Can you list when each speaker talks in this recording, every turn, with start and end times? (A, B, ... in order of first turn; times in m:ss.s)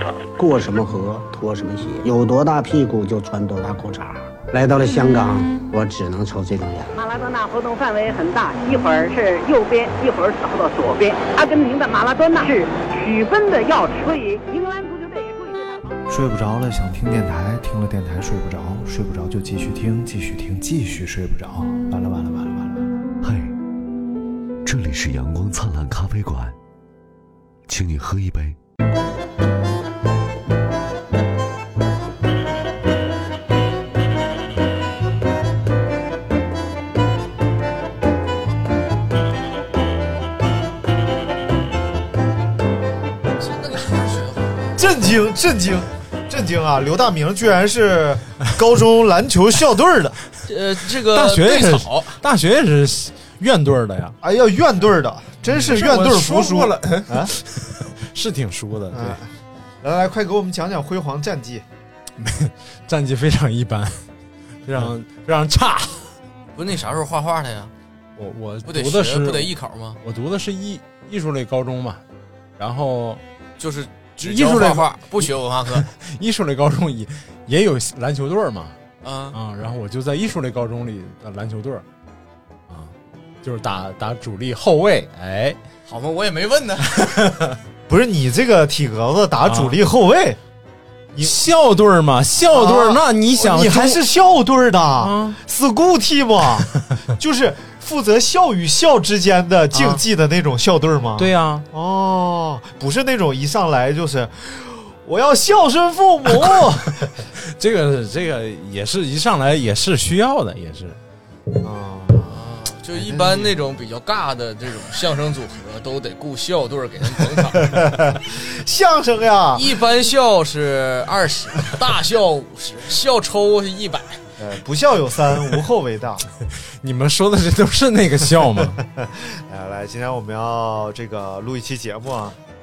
0:00.4-0:06.9 A
0:06.9-0:16.0 B
0:16.1-0:22.9 C
0:23.2-0:23.5 D
0:24.6-0:26.6 D
0:27.7-0:28.6 D
0:43.4-0:44.8 E
0:44.8-0:50.2 F
0:50.5-0:52.2 E
0:51.0-0:54.2 G
0:54.2-0:57.3 F
0:55.4-0:59.2 G
0:58.9-0:59.3 F
0:59.8-1:01.6 F
1:02.2-1:04.0 G
1:04.6-1:06.1 G
1:06.6-1:07.7 E
1:08.2-1:12.0 G
1:08.6-1:10.0 E
1:12.6-1:13.2 G
1:13.6-1:15.9 E
1:14.2-1:18.7 G
1:19.0-1:19.4 E
1:19.3-1:21.8 G
1:23.4-1:25.6 G
1:25.9-1:27.1 E
1:27.0-1:27.6 G
1:27.9-1:30.4 F
1:29.4-1:29.8 G
1:31.1-1:31.4 F
1:31.2-1:34.0 G
1:32.5-1:47.0 F
1:35.0-1:35.4 G
1:41.2-1:41.6 G
1:46.3-1:51.0 G
1:51.6-1:52.3 F
1:52.2-1:57.7 E
1:52.9-1:53.5 F
1:57.4-1:59.7 F
1:59.5-2:04.2 E
2:04.4-2:06.2 F
2:06.8-2:08.8 G
2:08.6-2:12.4 F